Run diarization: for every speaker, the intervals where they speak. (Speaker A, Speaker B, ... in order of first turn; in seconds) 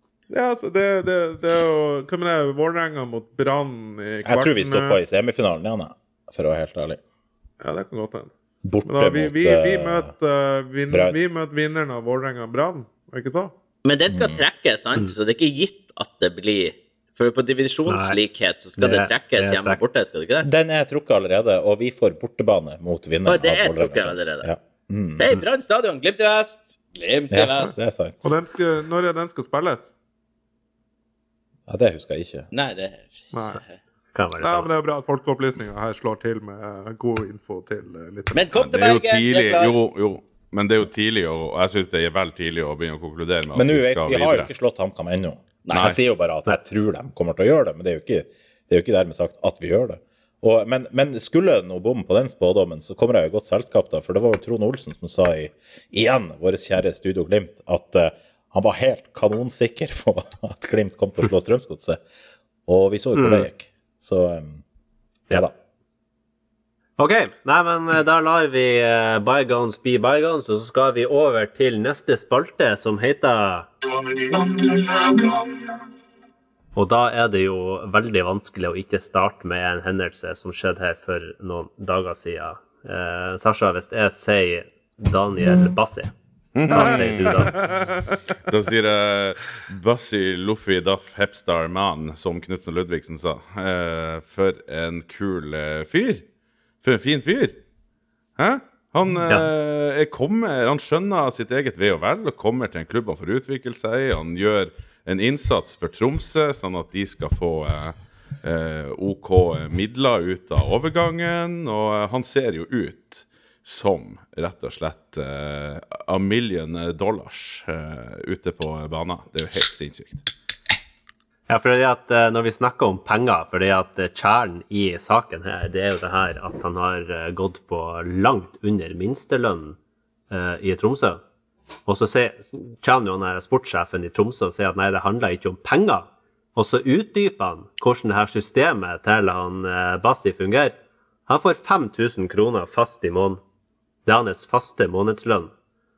Speaker A: 0.3-5.0, 7.6-8.3, 8.8-13.5, 28.2-29.9, 33.3-33.6, 34.4-38.5, 74.1-75.5, 87.5-88.2
Speaker B: 4.2-7.0, 8.6-10.1, 10.9-11.2, 14.1-14.4, 20.4-25.3, 27.3-28.3, 31.7-32.5, 43.5-62.0, 62.7-64.6
Speaker C: 13.8-20.5, 23.2-24.5, 25.2-27.7, 32.5-33.7, 38.3-39.7, 45.6-45.9
Speaker D: 17.9-18.2, 18.8-19.8, 34.1-34.7, 63.1-63.5, 67.0-73.7, 76.7-86.1, 86.7-87.6, 121.5-129.8, 130.3-131.2, 131.8-140.7, 141.3-143.4, 144.1-145.5
Speaker E: 38.5-44.5, 45.7-46.0, 86.5-87.7, 88.4-96.2, 96.8-97.6, 98.4-120.2